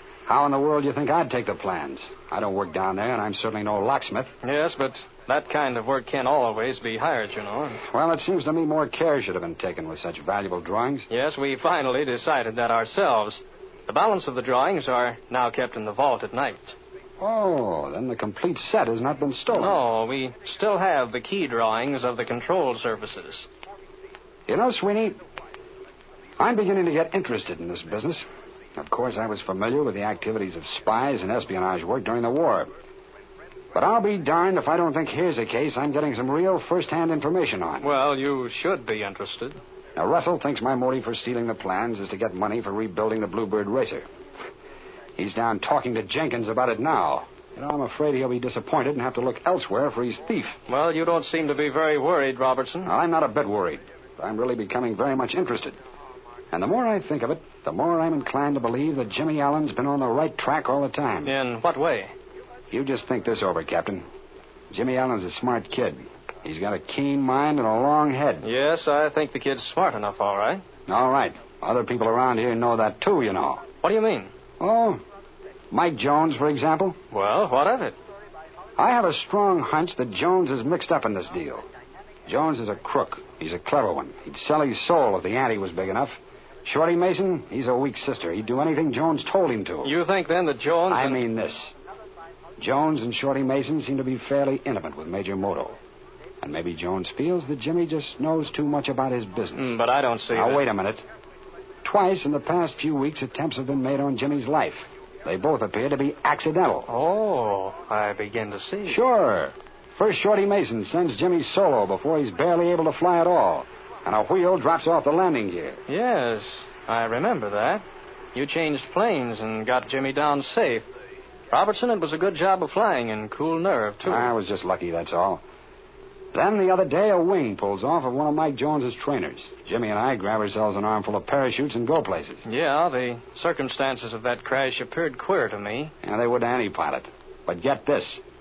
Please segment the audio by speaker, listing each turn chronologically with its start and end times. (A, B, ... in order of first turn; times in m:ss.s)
0:00.2-0:04.3 A
0:04.4-0:07.8 B
0:07.9-0:11.1 A
0:11.1-0:16.8 B
0:17.2-0:19.8 A
0:19.5-0:23.5 B
0:24.5-0:25.2 A
0:26.4-0:28.2 A
0:28.8-0:32.7 A
0:33.7-0:37.9 A
0:37.8-0:39.6 B
0:39.9-0:44.1 A
0:45.2-0:50.6 A
0:50.7-0:52.9 B
0:52.8-0:55.8 A
0:56.5-1:01.3 A
1:01.2-1:02.1 B
1:02.7-1:04.0 A
1:04.7-1:08.4 A
1:08.4-1:10.6 B
1:10.9-1:13.6 A
1:13.8-1:14.3 B
1:14.6-1:15.0 A
1:15.7-1:17.0 A
1:17.1-1:17.9 B
1:18.8-1:21.6 A
1:22.3-1:29.9 A
1:29.8-1:31.2 B
1:30.9-1:31.7 A
1:32.6-1:35.8 A
1:36.4-1:39.8 A
1:39.5-1:40.6 B
1:40.3-1:41.0 A
1:41.8-1:46.9 A
1:46.9-1:49.0 B
1:48.9-1:55.8 A
1:55.9-1:57.8 B
1:58.3-2:00.9 B
2:01.5-2:04.3 B
2:04.0-2:05.4 A
2:06.3-2:12.4 A
2:12.4-2:15.9 B
2:16.0-2:18.2 A